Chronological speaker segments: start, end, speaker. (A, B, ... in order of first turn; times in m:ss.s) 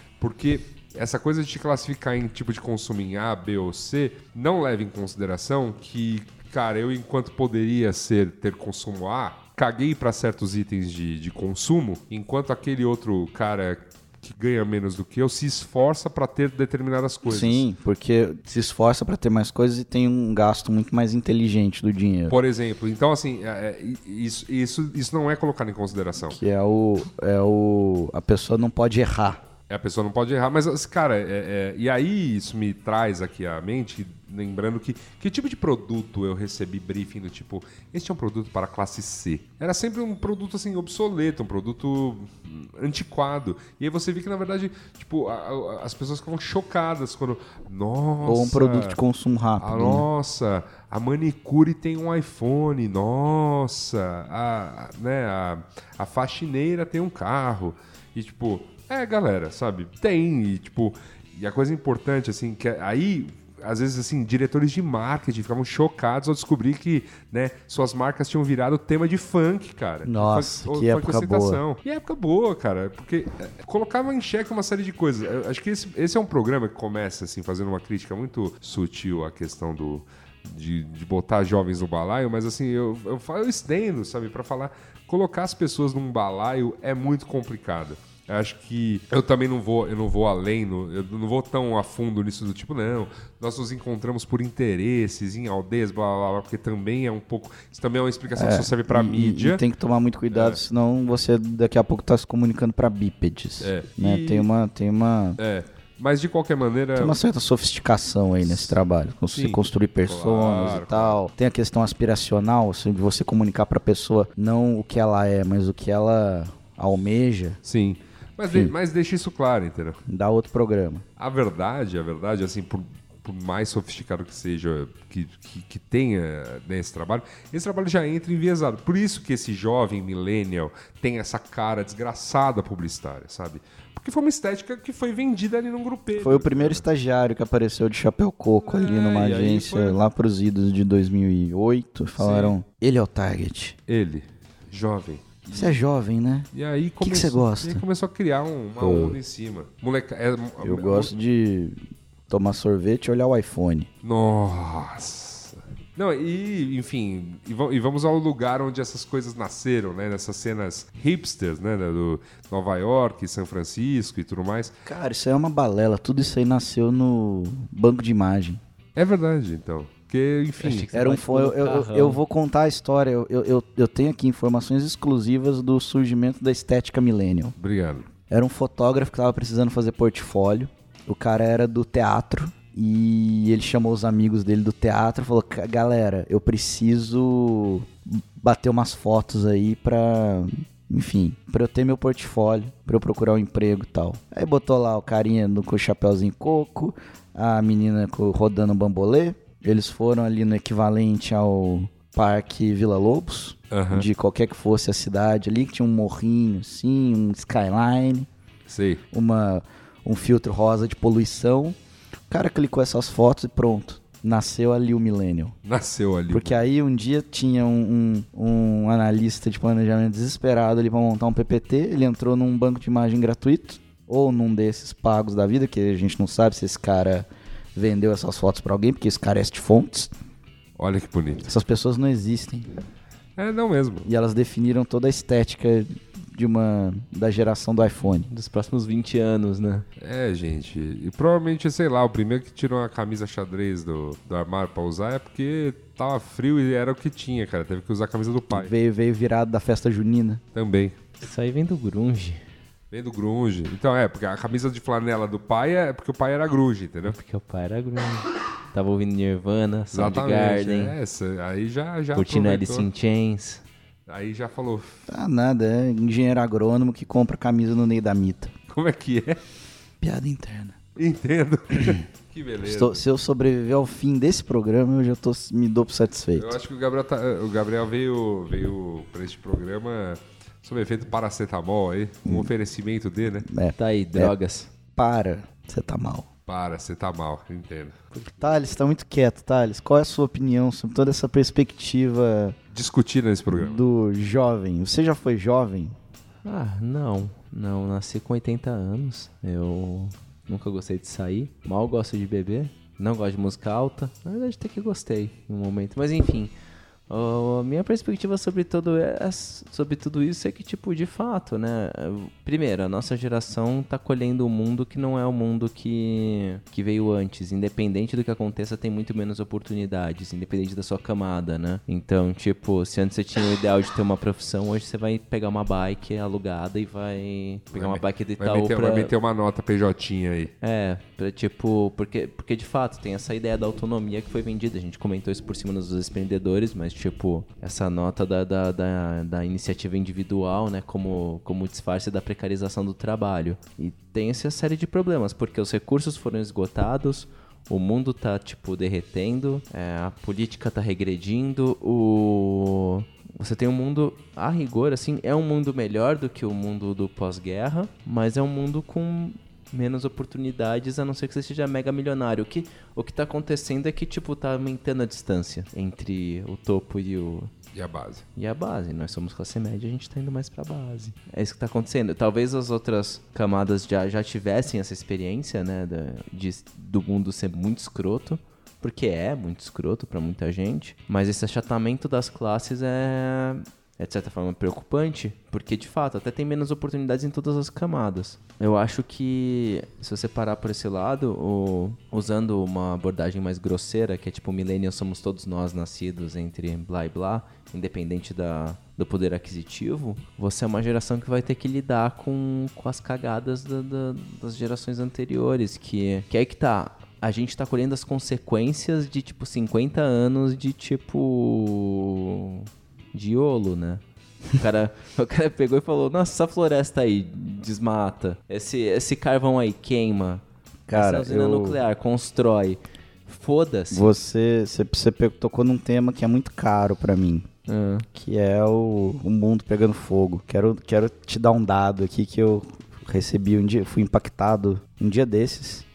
0:00.2-0:17.6 A
0:17.2-0:22.4 B
0:22.3-0:26.4 A
0:26.3-0:29.4 B
0:29.7-0:49.0 A
0:48.2-0:50.1 B
0:49.6-1:39.6 A
1:10.0-1:11.6 B
1:38.3-1:45.4 B
1:40.3-1:40.6 A
1:43.6-1:44.5 A
1:45.4-1:47.2 A
1:46.9-1:57.6 B
1:48.4-1:48.8 A
1:49.3-1:51.2 A
1:57.6-2:00.0 A
2:00.1-2:01.0 B
2:01.2-2:16.8 A
2:16.2-2:23.8 B
2:18.6-2:20.0 A
2:22.2-2:22.6 A
2:23.9-2:25.8 A
2:25.5-2:26.5 B
2:26.5-2:31.1 A
2:27.0-2:27.8 B
2:28.8-2:29.2 B
2:30.6-2:33.9 B
2:34.0-2:44.7 A
2:44.8-2:48.6 B
2:49.0-2:50.9 A
2:50.6-2:52.2 C
2:50.9-2:57.6 B
2:57.6-2:58.1 A
2:58.3-3:28.3 B
3:23.7-3:24.0 A
3:28.7-3:29.0 A
3:29.1-3:31.8 B
3:32.3-3:35.5 B
3:35.6-3:36.6 A
3:36.3-3:50.1 B
3:50.8-3:51.5 A
3:51.4-3:52.7 B
3:53.4-3:54.1 A
3:54.0-3:58.3 B
3:58.3-3:59.8 C
4:00.0-4:08.7 A
4:08.5-4:10.4 B
4:10.5-4:11.0 A
4:11.2-4:12.4 C
4:12.9-4:17.2 A
4:17.0-4:21.0 C
4:19.9-4:22.9 A
4:22.1-4:23.6 C
4:24.1-4:25.0 A
4:25.1-4:28.5 B
4:28.7-4:29.4 A
4:30.0-4:30.8 B
4:31.0-4:33.0 A
4:31.7-4:32.0 B
4:32.6-4:36.6 B
4:36.3-4:43.5 A
4:43.4-4:44.3 B
4:43.8-4:44.7 C
4:44.9-4:46.3 B
4:46.5-4:48.0 A
4:48.3-4:52.6 B
4:52.7-4:53.8 A
4:53.5-4:56.0 B
4:56.4-5:06.5 C
5:07.1-5:29.1 C
5:27.7-5:30.5 A
5:30.6-6:07.5 C
6:07.7-6:08.2 A
6:08.4-6:54.0 C
6:54.5-7:04.1 C
7:00.9-7:01.8 B
7:03.9-7:07.5 B
7:07.7-7:08.0 C
7:08.1-7:15.9 B